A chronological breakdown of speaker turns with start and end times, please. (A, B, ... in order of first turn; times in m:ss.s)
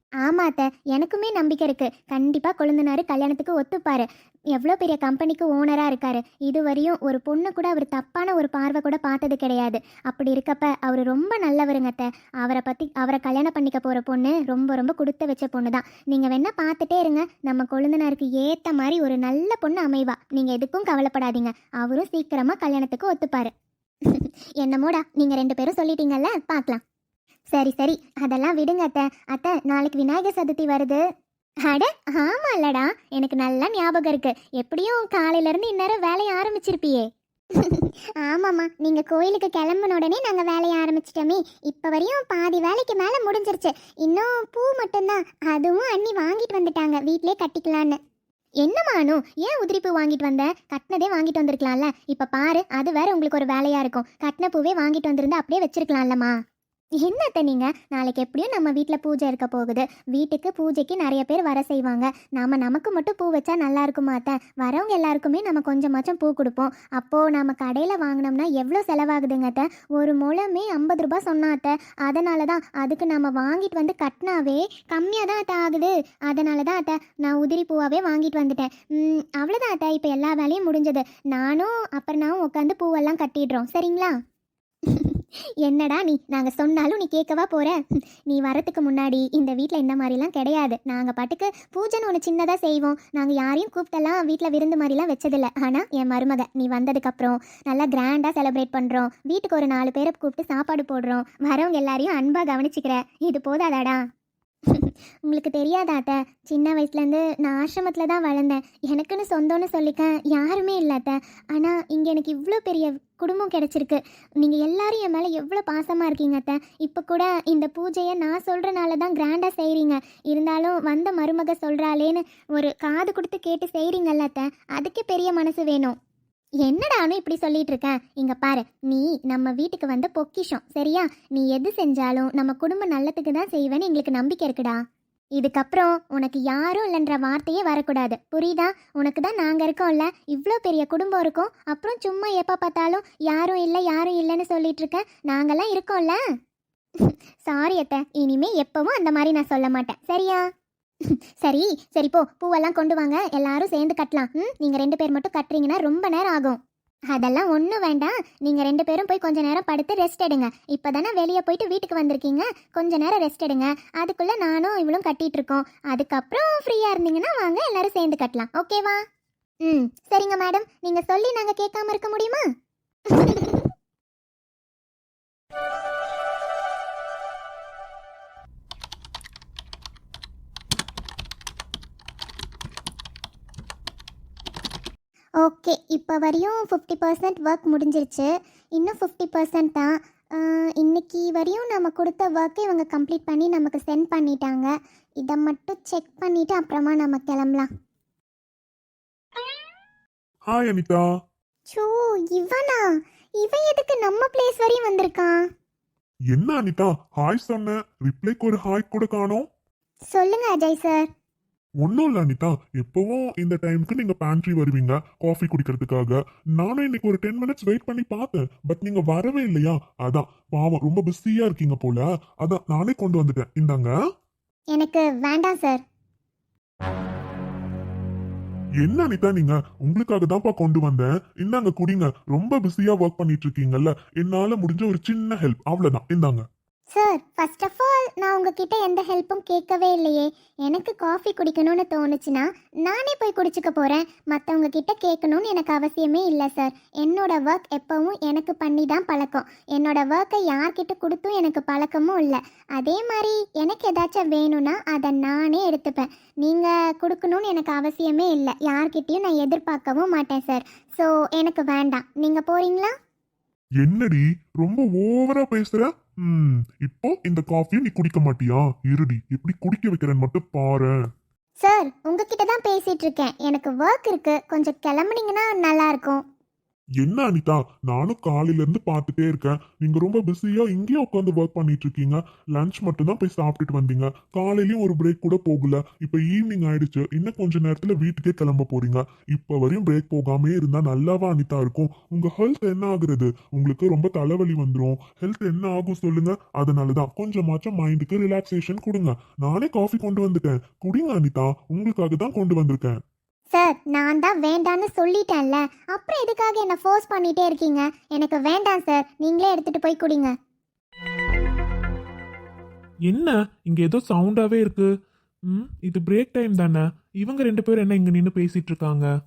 0:00.2-0:23.5 A
0:24.1-0:26.8 A
0:27.5-0:31.0 A
0:31.6-0:37.1 A
0:37.6-0:48.0 A
0:48.6-0:56.3 A
0:57.0-1:24.2 A
1:24.9-1:44.0 A
1:44.7-2:06.0 A
2:06.6-2:14.8 A
2:15.4-2:26.2 A
2:27.0-2:30.4 A
2:31.4-2:36.6 A
2:37.1-2:49.0 A
2:49.6-2:52.4 A
2:53.1-2:53.7 A
3:05.4-3:17.7 A
3:20.5-3:21.0 B
3:21.7-3:25.4 A
3:26.3-3:29.5 B
3:30.1-3:31.1 A
3:31.8-3:43.9 B
3:44.8-3:45.8 A
3:48.8-3:56.4 B
3:56.9-4:22.9 A
4:23.8-4:30.9 B
4:31.6-4:36.2 A
4:37.0-5:03.0 B
5:03.5-5:10.3 A
5:13.1-5:14.9 C
5:15.5-5:19.1 C